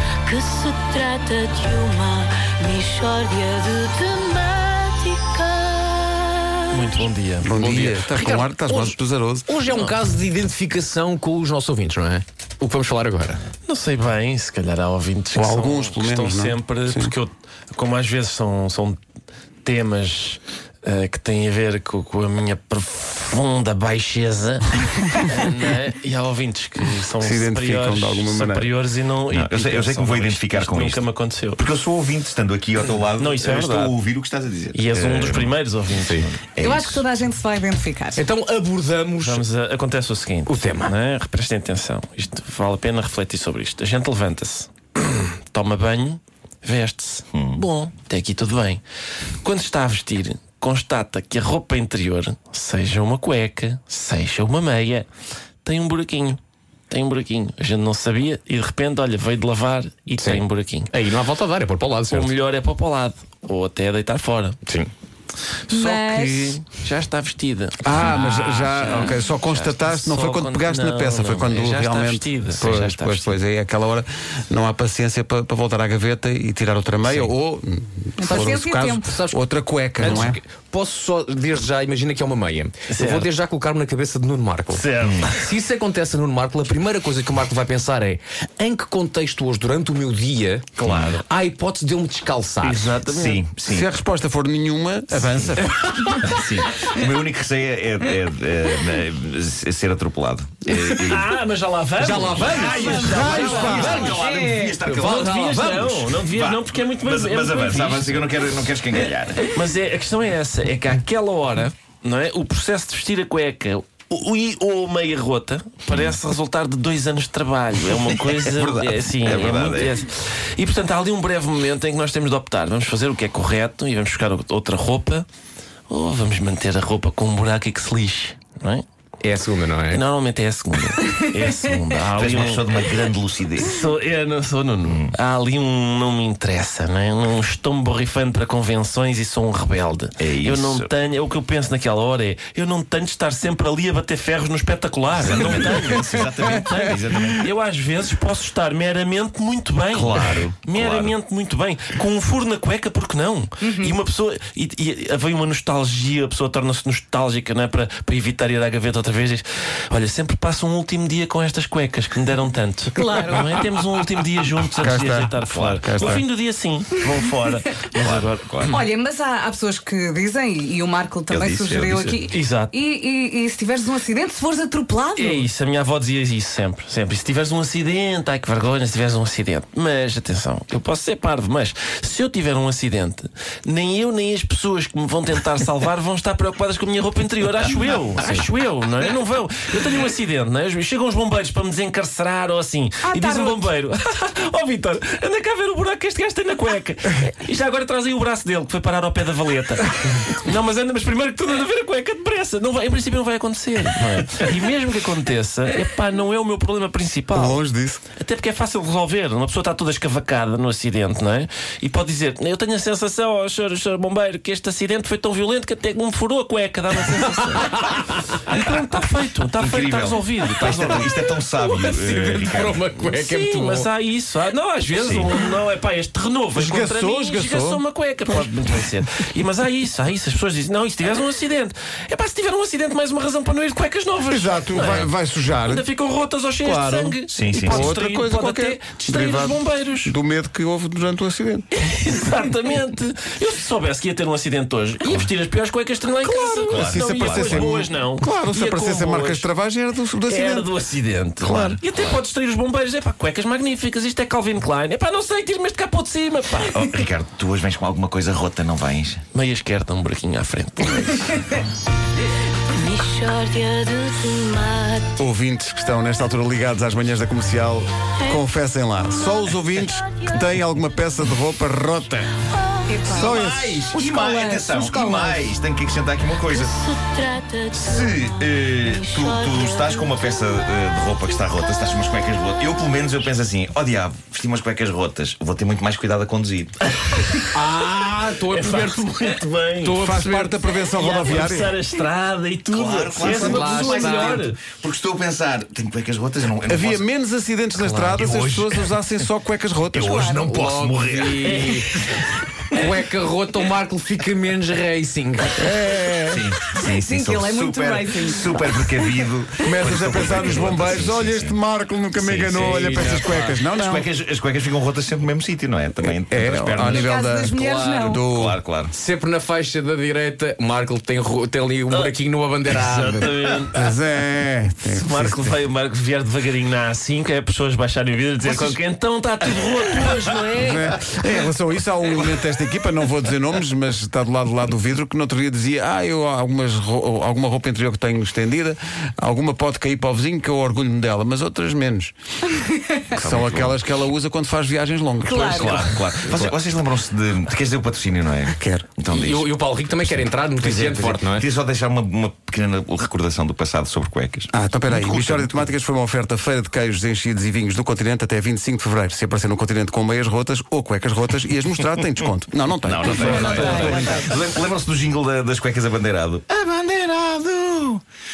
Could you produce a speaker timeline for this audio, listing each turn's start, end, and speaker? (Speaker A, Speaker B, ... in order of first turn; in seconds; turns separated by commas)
Speaker A: 0.2-6.9, Speaker B: 6.7-8.3, Speaker C: 7.4-9.5, Speaker D: 8.1-13.4, Speaker B: 13.7-19.0, Speaker C: 15.3-17.1, Speaker B: 19.6-31.6, Speaker C: 27.2-28.7, Speaker E: 29.3-31.0, Speaker E: 31.6-35.5, Speaker B: 33.0-34.0, Speaker B: 34.7-36.2, Speaker D: 36.0-36.3, Speaker E: 36.2-37.0, Speaker F: 36.6-38.2, Speaker D: 38.1-39.4, Speaker B: 39.2-48.8, Speaker D: 40.5-40.9, Speaker E: 47.3-47.6, Speaker B: 49.4-55.1, Speaker B: 55.6-56.4, Speaker B: 56.9-60.9, Speaker D: 60.2-62.3, Speaker B: 62.1-64.6, Speaker B: 65.7-73.3, Speaker F: 65.7-66.6, Speaker C: 67.8-80.4, Speaker F: 78.2-79.1, Speaker D: 78.2-78.5, Speaker D: 79.1-79.4, Speaker B: 80.0-80.3, Speaker D: 80.0-93.0, Speaker B: 82.9-83.3, Speaker B: 84.7-85.5, Speaker E: 85.0-85.3, Speaker E: 90.8-91.2, Speaker B: 92.6-93.4, Speaker E: 93.0-93.9, Speaker C: 93.7-96.2, Speaker E: 95.3-101.3, Speaker D: 96.1-96.6, Speaker D: 100.7-101.0, Speaker B: 101.0-104.1, Speaker D: 102.0-105.8, Speaker E: 102.2-109.5, Speaker F: 102.7-103.3, Speaker C: 103.0-104.1, Speaker F: 104.1-104.8, Speaker B: 104.9-125.2, Speaker E: 115.9-116.2, Speaker E: 118.1-120.0, Speaker B: 125.9-128.8, Speaker D: 129.2-130.0, Speaker B: 129.9-168.8, Speaker E: 132.2-133.8, Speaker E: 134.8-135.1, Speaker E: 140.2-140.9, Speaker E: 145.1-147.5, Speaker E: 149.9-151.1, Speaker F: 153.6-154.0, Speaker F: 162.9-163.6, Speaker C: 164.8-166.2, Speaker E: 165.5-166.2, Speaker E: 167.9-168.8, Speaker F: 168.7-175.4, Speaker E: 171.3-172.2, Speaker B: 172.2-172.7, Speaker B: 175.2-207.6, Speaker F: 193.1-193.6, Speaker C: 207.3-208.0, Speaker B: 208.2-240.1, Speaker D: 217.7-218.0, Speaker E: 219.6-222.8, Speaker D: 221.9-223.9, Speaker E: 224.9-225.3, Speaker C: 226.5-228.6, Speaker C: 234.2-235.8, Speaker C: 236.6-241.7, Speaker E: 237.3-237.9, Speaker B: 241.8-249.5, Speaker C: 246.2-250.7, Speaker E: 246.7-247.8, Speaker B: 250.2-257.0, Speaker C: 251.4-251.8, Speaker E: 256.7-259.2, Speaker B: 259.3-261.6, Speaker A: 262.7-265.2, Speaker C: 265.2-272.3, Speaker A: 269.1-270.3, Speaker A: 272.5-273.2, Speaker F: 272.9-273.3, Speaker E: 273.1-276.8, Speaker C: 273.1-273.9, Speaker F: 273.9-275.5, Speaker A: 276.5-280.3, Speaker E: 277.7-286.8, Speaker B: 287.0-290.1, Speaker D: 287.5-290.6, Speaker C: 290.0-291.8, Speaker B: 290.9-294.6, Speaker E: 292.7-297.0, Speaker D: 293.2-294.4, Speaker C: 293.2-293.7, Speaker C: 296.7-300.4, Speaker E: 297.8-299.0, Speaker E: 299.9-301.7, Speaker F: 300.0-300.4, Speaker D: 300.4-302.0, Speaker B: 301.3-302.2, Speaker D: 302.7-305.7, Speaker C: 305.6-306.5, Speaker E: 306.3-311.6, Speaker F: 306.7-308.9, Speaker C: 309.6-314.1, Speaker E: 312.1-317.1, Speaker D: 312.5-313.6, Speaker C: 316.0-318.6, Speaker D: 316.8-318.2, Speaker F: 317.0-318.2, Speaker E: 318.2-318.9, Speaker D: 318.9-323.3, Speaker B: 321.9-323.8, Speaker E: 322.7-323.6, Speaker C: 323.7-325.5, Speaker B: 324.9-330.9, Speaker C: 328.4-328.8, Speaker C: 330.6-342.1, Speaker F: 342.6-343.0, Speaker E: 343.1-343.8, Speaker C: 343.1-345.9, Speaker F: 345.2-345.8, Speaker E: 345.3-349.5, Speaker D: 346.3-346.5, Speaker C: 348.5-348.9, Speaker D: 349.1-351.5, Speaker E: 350.0-355.6, Speaker C: 354.5-364.3, Speaker E: 362.8-368.0, Speaker B: 363.0-364.1, Speaker D: 363.3-364.2, Speaker F: 363.6-364.0